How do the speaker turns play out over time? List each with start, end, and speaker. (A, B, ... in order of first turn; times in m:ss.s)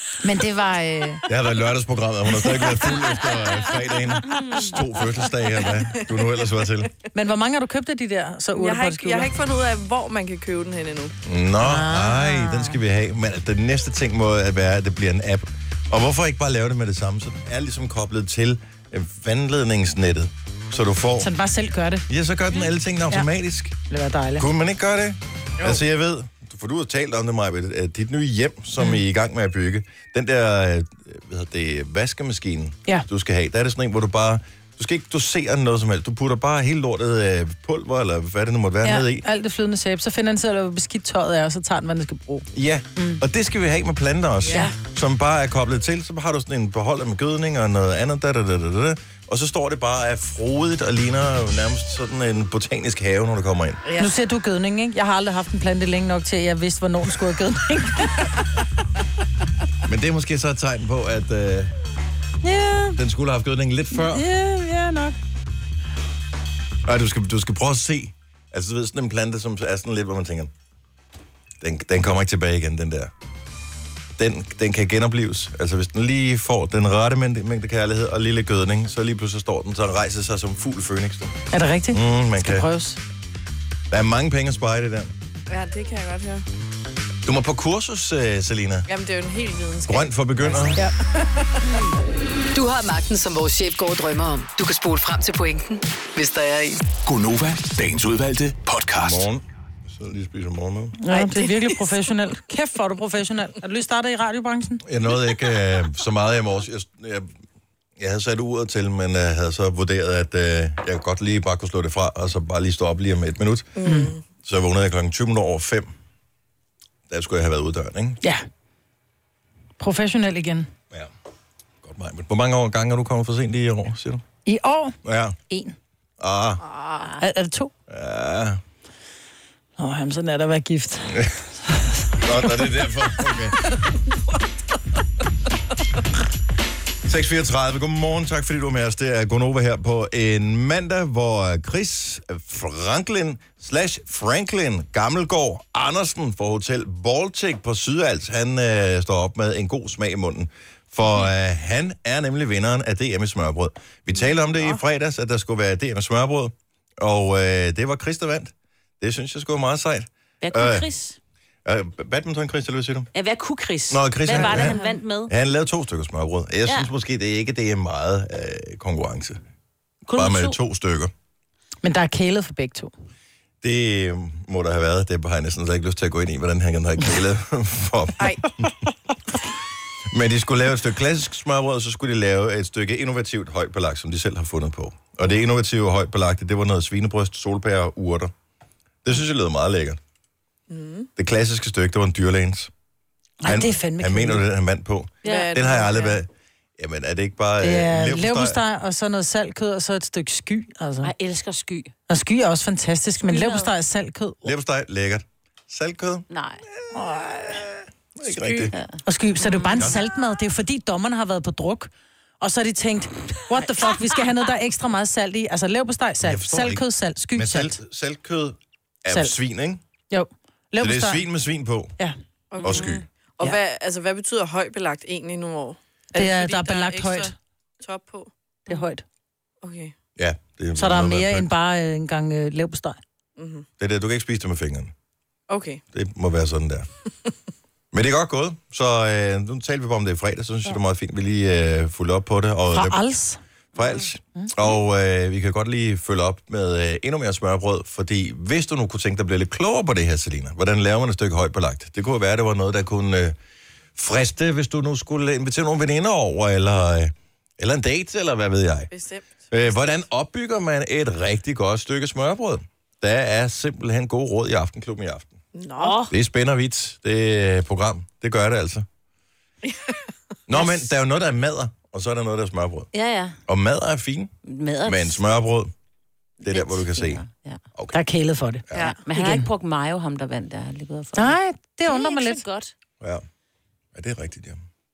0:00.2-0:01.2 A
0:01.3-0:06.9 B
0:04.3-0:04.7 C
0:06.1-0:06.4 D
0:07.1-0:09.3 A
0:08.6-0:11.2 D
0:11.2-0:21.3 B
0:11.6-0:12.8 A
0:21.2-0:22.1 A
0:22.1-0:23.8 B
0:23.9-0:24.5 A
0:24.4-0:39.2 B
0:38.8-0:43.2 A
0:42.5-0:53.8 B
0:44.4-0:44.7 D
0:44.5-0:44.7 A
0:53.8-0:54.1 D
0:54.0-0:58.4 A
0:59.8-1:01.7 B
1:02.4-1:03.0 A
1:03.0-1:04.2 B
1:03.9-1:05.2 A
1:06.8-1:10.5 B
1:11.6-1:13.1 B
1:14.2-1:21.4 B
1:21.5-1:23.0 A
1:21.9-1:22.7 B
1:23.9-1:25.1 B
1:25.5-1:26.4 D
1:27.2-1:28.9 B
1:28.9-1:31.8 D
1:29.9-1:30.8 B
1:31.7-1:31.9 C
1:32.5-1:36.8 E
1:37.0-1:39.3 F
1:39.0-1:41.0 B
1:41.0-1:44.8 A
1:41.1-1:41.9 D
1:44.8-1:47.3 B
1:48.0-1:53.7 B
1:53.8-1:54.2 D
1:53.8-1:54.1 A
1:54.4-1:55.9 B
1:57.1-1:58.2 B
1:59.8-2:00.7 A
2:01.8-2:04.2 B
2:04.4-2:05.0 A
2:05.0-2:05.4 B
2:05.5-2:05.8 A
2:06.2-2:06.6 B
2:06.6-2:07.1 D
2:07.2-2:07.7 A
2:07.9-2:08.6 B
2:09.8-2:11.1 A
2:11.1-2:11.4 B
2:12.2-2:13.7 B
2:17.0-2:40.9 B
2:40.4-2:41.2 C
2:41.6-2:43.1 B
2:43.2-2:45.3 C
2:43.9-2:49.4 B
2:50.1-2:50.6 C
2:50.1-2:51.1 B
2:51.8-2:52.9 A
2:53.6-2:58.7 B
2:58.2-2:58.5 D
3:00.1-3:08.3 B
3:09.0-3:10.0 B
3:10.7-3:11.1 D
3:11.2-3:12.7 B
3:13.4-3:14.4 A
3:13.4-3:18.6 B
3:15.2-3:15.5 C
3:15.2-3:16.2 D
3:17.6-3:21.1 A
3:21.0-3:21.9 C
3:22.1-3:24.4 A
3:23.2-3:23.7 C
3:24.4-3:26.3 B
3:26.3-3:26.6 C
3:26.9-3:27.4 A
3:27.5-3:28.8 B
3:28.2-3:28.7 D
3:28.7-3:29.9 C
3:29.0-3:37.8 A
3:36.2-3:39.8 B
3:40.1-3:41.2 A
3:40.8-3:42.0 B
3:42.5-3:48.3 D
3:42.6-3:43.0 B
3:46.2-3:47.3 A
3:48.7-3:49.0 A
3:49.6-3:50.0 D
3:50.2-3:51.5 B
3:50.8-3:53.0 A
3:53.4-3:53.7 D
3:53.8-3:54.9 B
3:55.5-3:55.8 D
3:55.9-3:56.9 B
3:57.9-4:03.0 B
4:02.7-4:03.4 A
4:03.8-4:13.4 B
4:03.8-4:04.1 C
4:14.0-4:18.9 B
4:18.9-4:20.0 D
4:19.5-4:25.3 B
4:25.5-4:26.0 D
4:25.8-4:26.1 C
4:26.1-4:28.9 B
4:29.6-4:30.0 D
4:30.5-4:32.9 B
4:30.5-4:30.9 C
4:32.9-4:33.4 C
4:33.5-4:34.3 B
4:34.5-4:35.2 C
4:34.8-4:35.7 B
4:36.4-4:37.2 B
4:36.5-4:37.6 C
4:37.9-4:39.5 A
4:38.8-4:42.7 C
4:41.2-4:42.4 A
4:44.0-4:44.6 B